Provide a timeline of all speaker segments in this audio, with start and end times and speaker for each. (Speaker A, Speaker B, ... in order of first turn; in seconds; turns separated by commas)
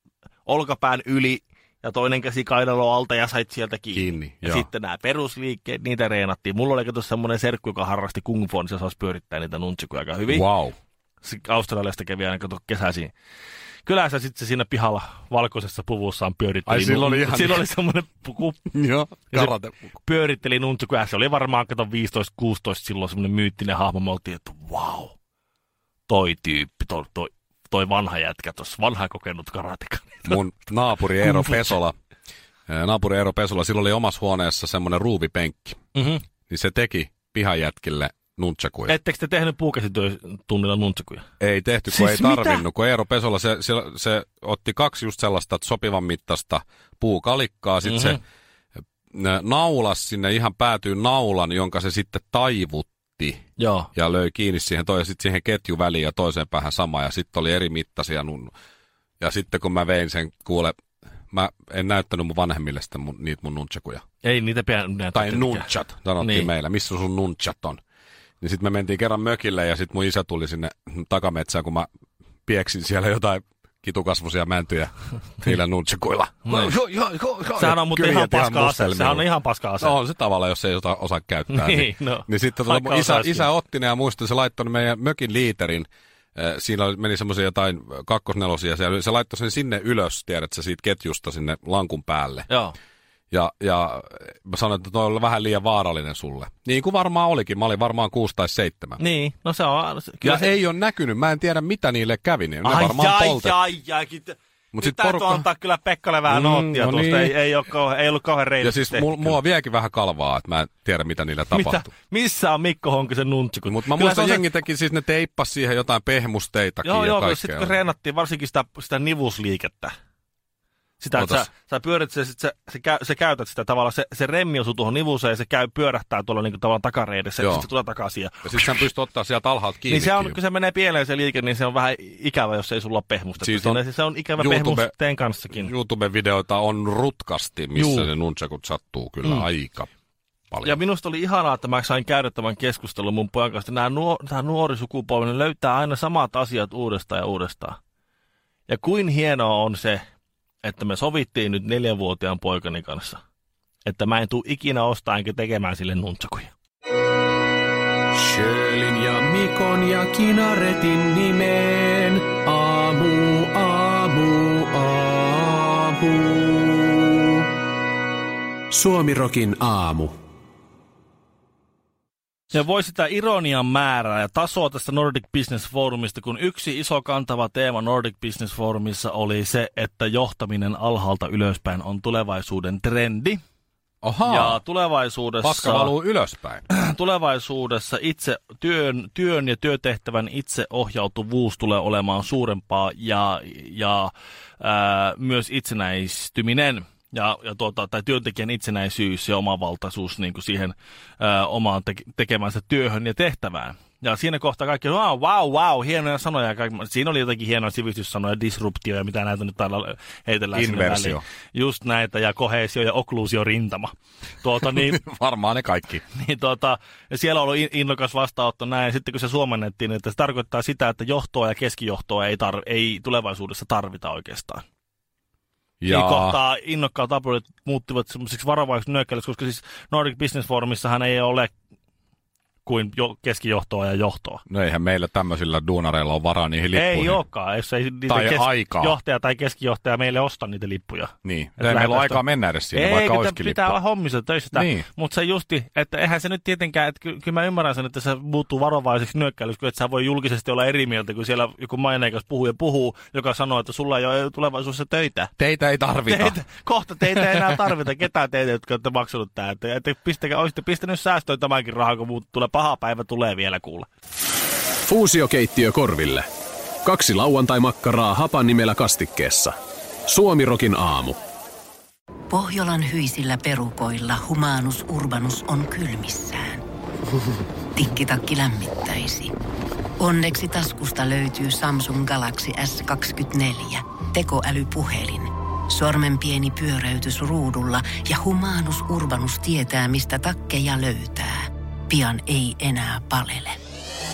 Speaker A: 0.5-10.5, Speaker B: 3.9-4.7, Speaker B: 10.3-10.7, Speaker A: 11.2-13.1, Speaker A: 13.9-18.6, Speaker B: 16.7-17.7, Speaker B: 18.7-20.0, Speaker A: 19.3-25.1, Speaker A: 26.1-30.4, Speaker B: 30.3-31.9, Speaker A: 31.2-31.7, Speaker B: 32.7-35.8, Speaker A: 36.0-36.2, Speaker B: 36.5-38.9, Speaker A: 38.9-41.3, Speaker B: 41.4-48.2, Speaker A: 41.9-42.6, Speaker A: 47.8-48.2, Speaker B: 49.1-53.4, Speaker A: 53.6-53.9, Speaker B: 54.0-58.5, Speaker B: 59.2-60.7, Speaker B: 61.3-64.0, Speaker A: 64.2-66.5, Speaker B: 65.1-67.8, Speaker B: 68.4-71.9, Speaker B: 72.5-79.2, Speaker A: 76.5-76.7, Speaker A: 77.6-80.0, Speaker B: 79.8-92.5, Speaker A: 81.5-83.5, Speaker A: 92.5-92.8, Speaker B: 93.3-99.0, Speaker A: 99.0-100.5, Speaker B: 100.2-103.5, Speaker A: 102.6-109.4, Speaker B: 104.7-105.5, Speaker B: 106.3-107.3, Speaker B: 108.6-111.9, Speaker A: 111.5-114.5, Speaker B: 113.7-117.8, Speaker A: 116.8-119.9, Speaker A: 121.0-128.9, Speaker B: 121.1-121.5, Speaker B: 127.4-127.7, Speaker B: 128.4-130.4, Speaker A: 129.9-135.7, Speaker B: 133.4-133.8, Speaker B: 134.4-134.9, Speaker B: 135.6-139.9, Speaker A: 137.8-138.1, Speaker B: 140.5-140.8, Speaker A: 140.6-147.8, Speaker A: 148.7-150.1, Speaker A: 150.6-153.2, Speaker A: 153.8-156.5, Speaker C: 158.2-167.2, Speaker C: 168.7-170.1, Speaker A: 172.5-183.4, Speaker B: 184.0-184.6, Speaker A: 184.3-185.9, Speaker B: 185.4-186.6, Speaker A: 186.7-215.0, Speaker B: 210.5-211.2, Speaker B: 214.7-216.0, Speaker A: 216.1-224.6, Speaker B: 225.8-226.4, Speaker A: 225.9-231.5, Speaker A: 232.7-234.4, Speaker B: 234.5-237.2, Speaker A: 236.7-255.3, Speaker B: 238.1-239.0, Speaker B: 241.2-243.8, Speaker B: 244.5-244.9, Speaker B: 255.4-256.4, Speaker A: 256.1-263.9, Speaker B: 257.1-257.6, Speaker C: 264.8-266.3, Speaker C: 266.8-269.6, Speaker C: 270.1-271.2, Speaker D: 272.3-276.6, Speaker D: 277.8-279.3, Speaker D: 280.0-293.6